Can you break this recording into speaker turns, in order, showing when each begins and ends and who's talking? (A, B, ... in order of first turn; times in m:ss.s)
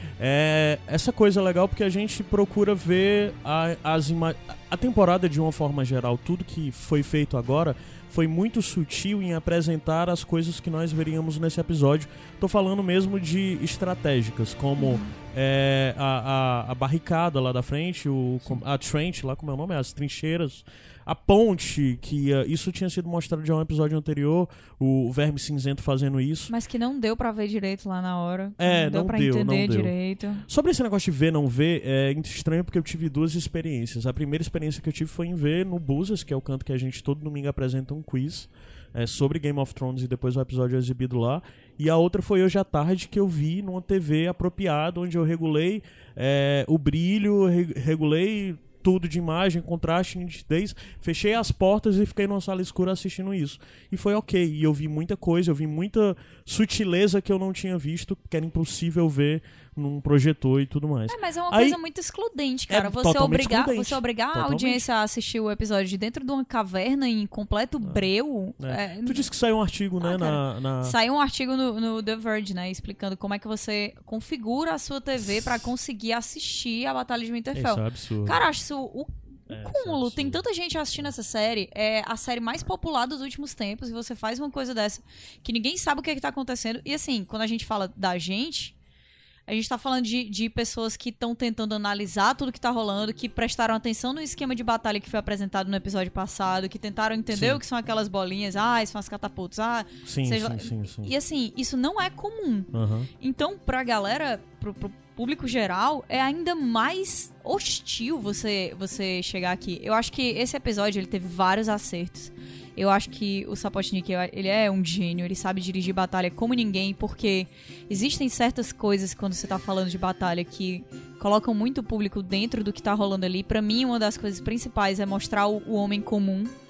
0:00.2-0:26.5 A
0:14.8-0:15.1 B
0:26.5-0:30.4 B
0:28.6-0:29.9 A
0:30.4-1:01.8 A
1:01.1-1:09.3 B
1:02.7-1:04.9 A
1:07.8-1:08.1 A
1:08.6-1:11.0 A
1:10.0-1:28.7 B
1:17.5-1:18.4 A
1:19.5-1:20.4 A
1:29.5-2:06.6 B
1:37.3-1:37.6 A
1:40.0-1:41.1 A
1:42.7-1:43.1 A